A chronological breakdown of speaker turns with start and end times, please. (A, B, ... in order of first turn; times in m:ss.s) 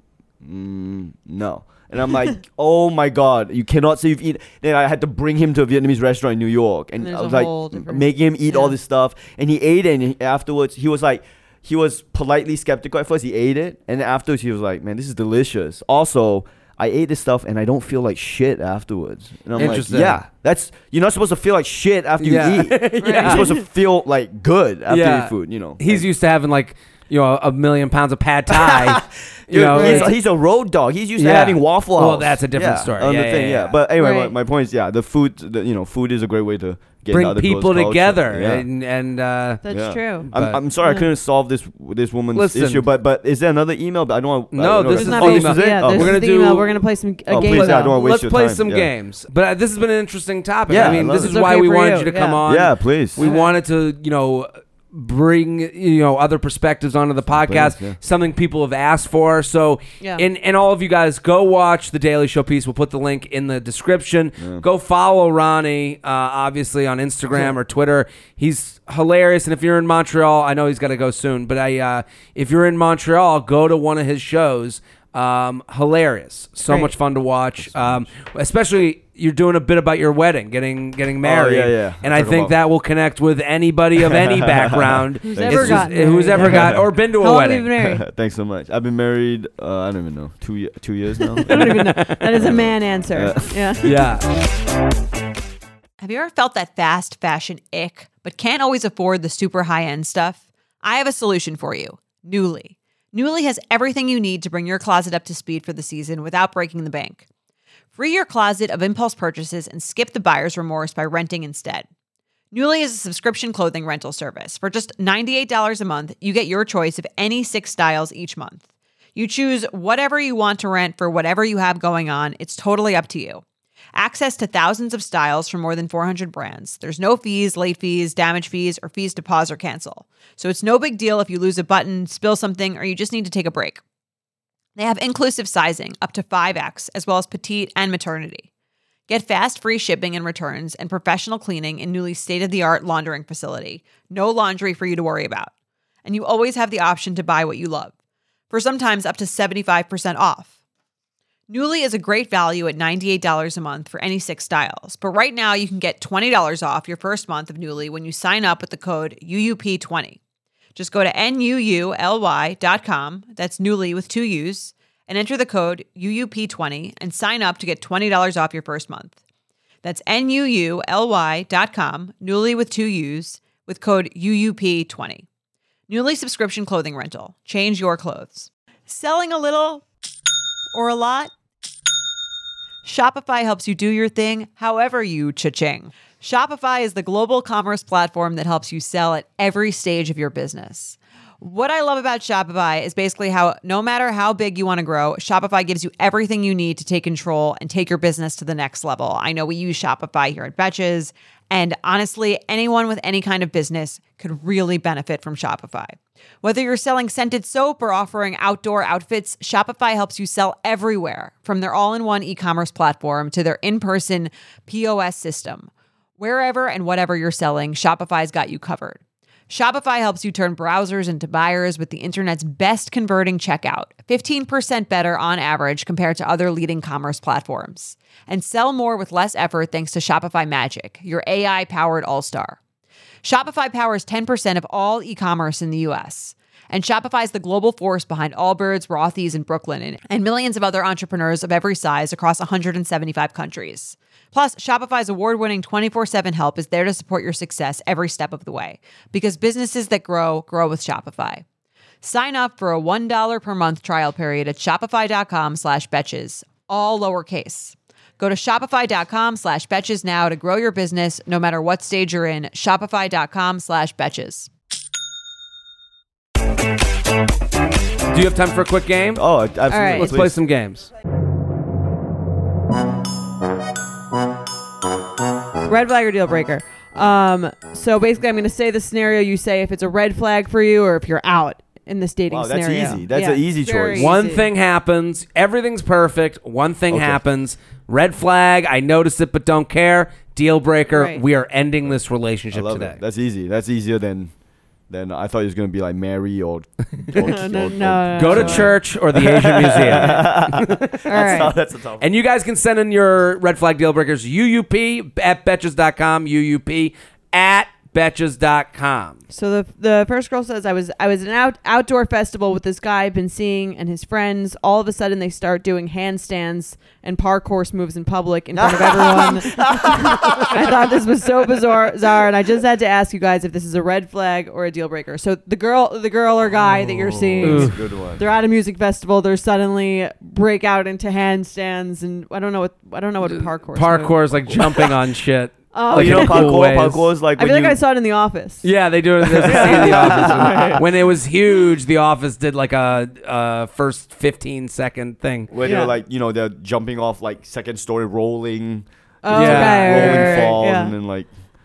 0:00.4-0:26.0 A
0:07.0-0:08.8 B
0:19.6-0:20.2 C
0:22.2-0:23.5 C
0:23.0-0:23.6 B
0:24.9-0:30.1 C
0:28.5-0:38.6 A
0:29.7-0:30.1 B
0:31.2-0:33.7 C
0:34.0-0:34.3 B
0:37.1-0:39.6 C
0:39.6-0:40.3 B
0:39.7-0:46.6 A
0:40.2-0:40.6 C
0:40.8-0:41.1 B
0:42.3-0:42.8 C
0:44.5-0:46.7 C
0:44.9-0:48.0 B
0:47.3-0:48.9 A
0:47.4-1:27.7 C
0:50.7-0:51.4 A
0:50.8-0:52.4 B
0:52.4-0:53.2 A
0:53.2-0:53.5 B
0:57.3-0:58.0 A
1:00.0-1:00.2 B
1:04.4-1:04.6 A
1:16.6-1:16.9 B
1:17.6-1:18.0 A
1:21.2-1:22.5 A
1:24.0-1:26.8 A
1:25.3-1:28.0 B
1:27.8-1:34.1 A
1:31.4-1:34.0 B
1:31.5-1:32.3 C
1:33.8-1:34.2 C
1:36.0-1:47.2 D
1:48.0-1:51.9 D
1:52.5-1:58.6 D
1:59.1-2:03.4 D
2:03.9-2:13.8 D
2:14.8-2:18.5 D
2:19.1-2:25.5 D
2:26.0-2:27.9 D
2:28.5-2:30.5 D
2:31.5-2:40.2 D
2:40.7-2:49.2 D
2:49.8-2:55.2 D
2:55.9-2:59.8 D
3:00.7-3:01.3 D
3:02.8-3:52.6 D
3:53.2-4:11.4 D
4:12.0-4:24.5 D
4:28.1-4:29.2 C
4:29.2-4:30.3 A
4:29.7-4:30.2 B
4:29.9-4:30.9 C
4:35.6-4:44.5 B
4:42.3-4:44.1 A
4:43.9-4:53.0 C
4:46.9-4:47.2 A
4:50.9-4:51.2 B
4:52.5-4:54.3 A
4:54.9-5:02.0 A
4:57.1-4:58.7 B
4:58.1-5:09.2 C
4:59.9-5:00.3 B
5:01.1-5:01.5 B
5:09.3-5:34.9 B
5:18.6-5:20.8 A
5:27.2-5:28.2 A
5:27.4-5:27.8 C
5:33.2-5:37.1 C
5:35.7-5:36.6 B
5:35.9-5:37.8 A
5:37.4-5:38.7 B
5:38.6-5:45.5 C
5:39.3-5:40.8 A
5:39.4-5:40.8 B
5:45.5-5:51.3 A
5:45.6-5:46.0 B
5:49.2-5:51.0 B
5:49.3-5:50.4 C